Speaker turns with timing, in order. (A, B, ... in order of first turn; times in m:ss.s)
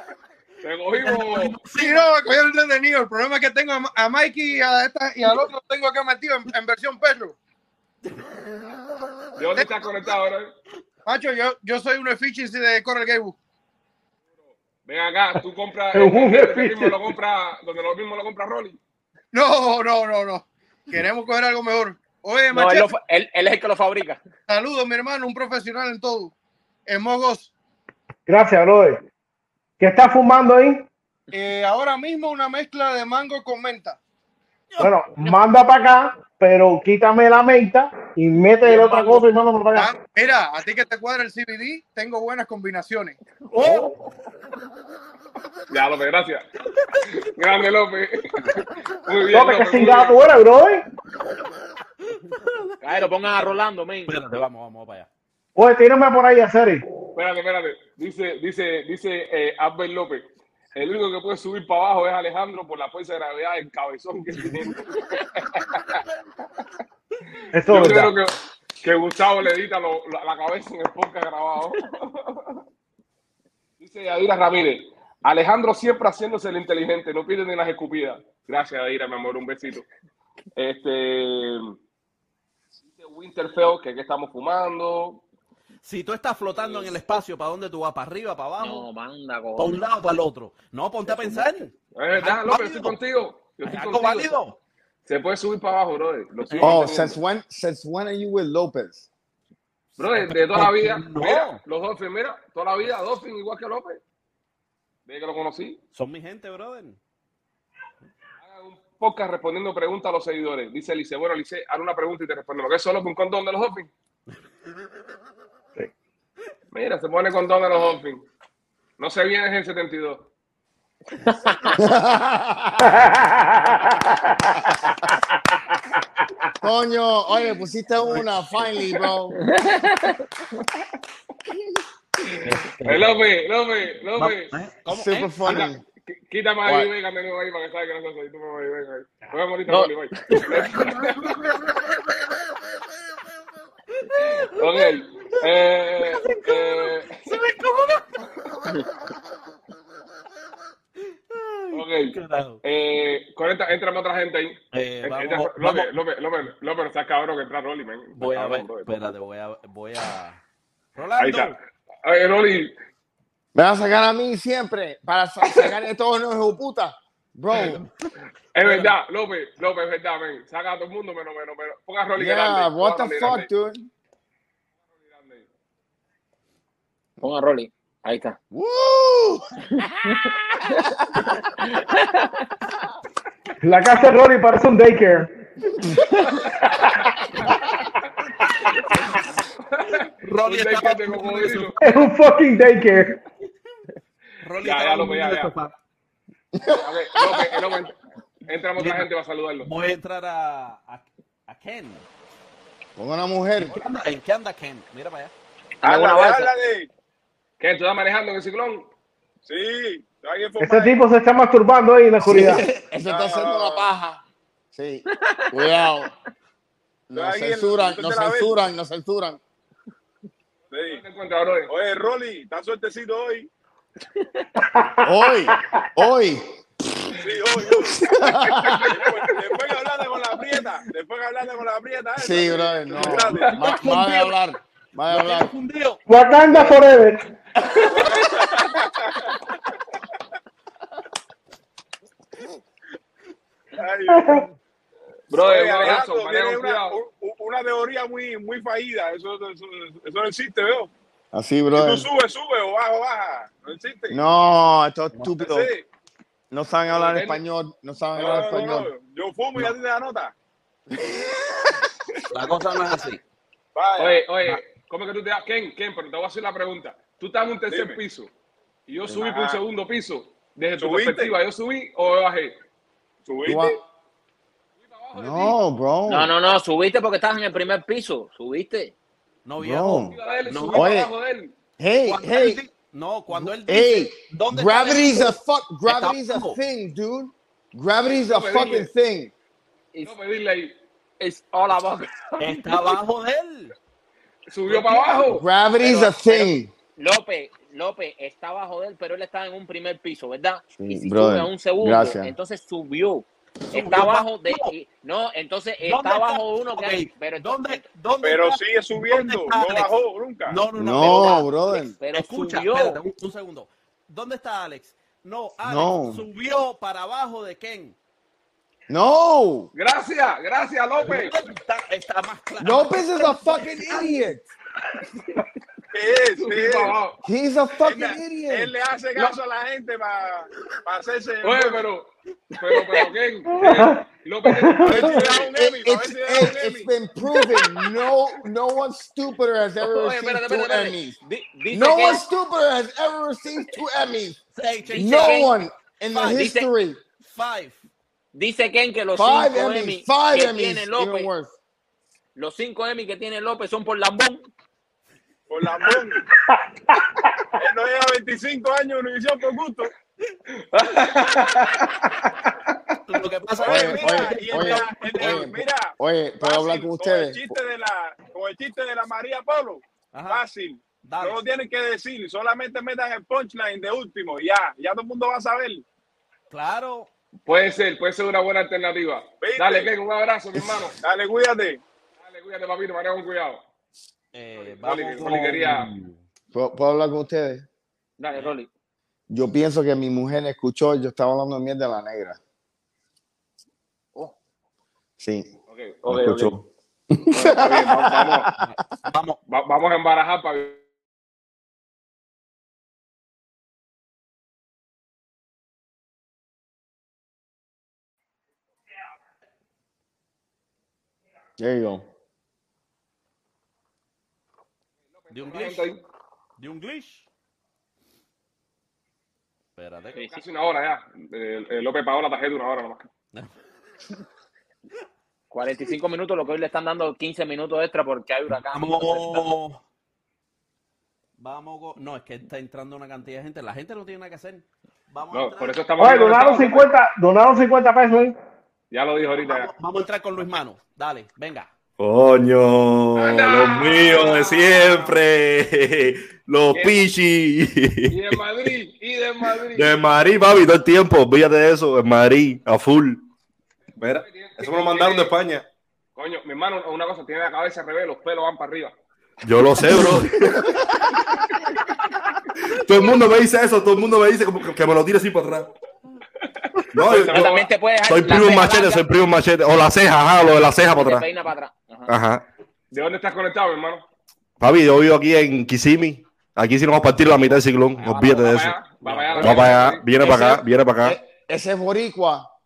0:00.6-0:01.6 A
0:01.0-0:02.1 B
0:01.7-0:07.4 C
0:09.4-0:10.5 A
0:11.0-0:13.4 C
0:14.8-0:18.8 A
0:15.9-0:17.0 D
0:19.3-0:22.9 C
0:22.5-0:24.2 E
0:24.5-0:26.3 C
0:26.8-0:27.5 C
0:28.3-0:29.0 D
0:29.8-0:30.8 D
0:31.3-0:34.0 C
0:34.7-0:35.3 B
0:34.8-0:39.9 D
0:38.6-0:39.2 E
0:39.7-0:43.2 C
0:43.5-0:43.9 D
0:45.7-0:46.4 A
0:47.2-0:48.5 A
0:49.0-0:50.2 A
0:49.3-0:50.8 D
0:52.1-0:52.9 B
0:52.8-0:54.2 E
0:54.0-0:55.1 B
0:55.6-0:56.8 D
0:57.1-1:06.0 A
1:07.5-1:08.1 D
1:07.7-1:12.6 A
1:13.8-1:19.8 A
1:20.6-1:21.7 A
1:22.9-1:25.2 A
1:25.8-1:28.8 B
1:26.6-1:26.9 A
1:28.6-1:29.8 E
1:29.6-1:33.0 B
1:31.0-1:31.4 E
1:32.0-1:34.3 A
1:33.6-1:34.6 B
1:35.0-1:37.2 A
1:36.4-1:36.8 B
1:36.6-1:39.1 F
1:40.0-1:44.0 A
1:40.1-1:41.6 B
1:45.1-1:45.8 A
1:45.9-1:47.0 B
1:48.4-1:53.9 A
1:56.7-1:58.2 A
1:59.0-2:00.3 A
2:01.3-2:01.7 E
2:01.8-2:02.9 F
2:03.0-2:04.6 D
2:06.6-2:09.4 F
2:09.5-2:10.2 E
2:12.4-2:13.3 B
2:12.8-2:14.5 A
2:14.1-2:15.4 B
2:14.9-2:15.8 F
2:15.4-2:21.4 A
2:16.6-2:16.9 F
2:24.1-2:25.0 B
2:24.5-2:27.3 A
2:26.0-2:28.0 B
2:31.3-2:32.6 B
2:31.7-2:38.9 A
2:34.7-2:35.9 B
2:38.2-2:40.4 B
2:40.9-2:41.6 B
2:41.2-2:42.7 A
2:43.5-2:47.8 F
2:45.4-2:45.7 A
2:47.6-2:47.9 B
2:48.5-2:53.5 A
2:48.6-2:48.9 B
2:52.1-2:53.9 F
2:54.9-2:55.5 A
2:57.2-2:58.4 E
2:58.5-2:59.4 F
3:00.0-3:00.8 E
3:01.6-3:02.3 E
3:03.6-3:05.3 D
3:09.7-3:11.8 A
3:10.2-3:11.9 B
3:11.8-3:13.2 D
3:14.4-3:15.7 B
3:14.6-3:15.5 A
3:16.5-3:17.6 F
3:16.8-3:17.9 A
3:18.5-3:19.7 A
3:18.8-3:19.1 B
3:19.6-3:22.0 B
3:23.0-3:23.8 F
3:23.6-3:25.3 B
3:25.8-3:26.5 E
3:25.8-3:26.9 G
3:27.6-3:28.9 A
3:29.4-3:31.0 G
3:30.6-3:32.6 D
3:32.2-3:34.2 F
3:33.0-3:33.9 G
3:34.7-3:36.1 F
3:35.2-3:35.5 E
3:37.1-3:39.4 F
3:37.1-3:38.6 G
3:40.7-3:41.0 G
3:40.8-3:41.7 A
3:41.7-3:43.5 G
3:44.7-3:45.0 D
3:45.0-3:46.5 F
3:47.2-3:48.1 G
3:47.8-3:49.0 F
3:48.6-3:53.6 G
3:52.2-3:55.5 F
3:53.6-3:54.4 B
3:55.1-3:56.0 B
3:56.1-3:57.2 D
3:57.7-3:58.1 B
3:57.9-3:59.3 G
4:03.8-4:04.5 G
4:04.1-4:04.4 D
4:05.3-4:07.0 A
4:05.3-4:10.9 G
4:11.3-4:12.1 F
4:11.7-4:14.2 G
4:14.1-4:15.7 F
4:15.4-4:15.8 G
4:16.5-4:18.9 F
4:16.9-4:17.4 A
4:18.1-4:20.3 G
4:22.3-4:23.2 B
4:23.7-4:24.2 G
4:24.0-4:28.3 A
4:27.7-4:28.0 G
4:28.9-4:32.6 A
4:29.1-4:29.6 G
4:30.8-4:31.3 G
4:33.2-4:33.8 G
4:33.4-4:33.8 F
4:34.8-4:35.6 A
4:35.1-4:36.3 F
4:36.1-4:38.9 E
4:39.4-4:41.0 B
4:39.6-4:40.1 F
4:40.1-4:41.5 A
4:40.7-4:41.1 F
4:41.8-4:42.6 F
4:42.0-4:45.3 B
4:43.3-4:49.3 F
4:45.9-4:46.6 B
4:48.2-4:48.9 A
4:50.0-4:50.7 A
4:51.2-4:53.0 E
4:52.4-4:53.7 B
4:54.5-4:55.4 A
4:54.7-4:55.1 B
4:55.3-4:56.7 F
4:55.8-4:56.1 E
4:57.0-5:07.8 E
5:00.8-5:02.3 F
5:03.7-5:04.7 B
5:05.8-5:09.9 B
5:08.2-5:10.6 G
5:10.5-5:11.4 B
5:10.8-5:12.0 F
5:11.0-5:13.0 E
5:12.1-5:18.0 B
5:15.6-5:16.2 F
5:18.9-5:19.7 F
5:19.7-5:21.4 A
5:21.0-5:24.2 B
5:22.6-5:24.4 F
5:25.9-5:27.0 G
5:26.4-5:27.2 A
5:27.2-5:28.7 F
5:27.9-5:31.8 G
5:31.4-5:35.5 A
5:33.5-5:35.2 D
5:34.8-5:36.9 G
5:35.1-5:41.2 F
5:39.8-5:42.2 E
5:41.7-5:44.4 F
5:44.5-5:45.4 B
5:44.9-5:45.6 E
5:44.9-5:47.0 F
5:46.1-5:46.4 B
5:46.2-5:46.7 E
5:47.2-5:47.8 B
5:48.3-5:51.3 E
5:49.2-5:51.6 F
5:52.4-5:54.5 E
5:55.5-5:56.2 G
5:56.5-5:57.2 D
5:57.6-5:59.9 G
6:00.7-6:02.1 A
6:03.0-6:05.5 B
6:03.6-6:15.8 G
6:03.6-6:07.5 F
6:10.1-6:10.4 B
6:11.0-6:11.4 B
6:16.5-6:17.1 B
6:17.5-6:21.0 A
6:19.4-6:19.9 G
6:21.0-6:21.8 G
6:22.2-6:23.6 A
6:24.3-6:26.2 B
6:24.7-6:25.9 A
6:26.5-6:27.6 F
6:28.2-6:28.7 E
6:29.3-6:32.4 F
6:35.2-6:35.5 F
6:35.7-6:36.5 A
6:36.1-6:38.5 F
6:37.3-6:38.5 A
6:38.6-6:39.4 B
6:39.5-6:40.8 A
6:51.6-6:52.0 F
6:55.2-6:56.0 A
6:55.3-6:55.9 B
6:56.6-6:57.3 B
6:59.8-7:00.3 B
7:00.2-7:03.0 A
7:05.5-7:09.5 E
7:08.7-7:09.8 B
7:11.4-7:15.9 B
7:15.3-7:16.9 A
7:16.0-7:18.3 D
7:18.9-7:19.7 A
7:19.4-7:21.7 B
7:22.0-7:28.4 H
7:23.2-7:25.1 A
7:26.7-7:27.0 A
7:28.1-7:29.9 A
7:29.6-7:33.2 H
7:34.0-7:35.3 A
7:34.0-7:35.6 H
7:36.2-7:38.9 A
7:39.4-7:40.7 H
7:42.7-7:45.7 H
7:46.9-7:51.2 H
7:47.0-7:47.7 A
7:47.2-7:49.0 E
7:50.9-7:52.1 E
7:52.1-7:52.4 H
7:52.9-7:54.0 A
7:54.6-7:58.8 H
7:58.0-7:58.3 E
7:58.1-8:00.0 A
7:59.0-7:59.7 E
7:59.4-8:01.2 H
8:00.2-8:02.5 F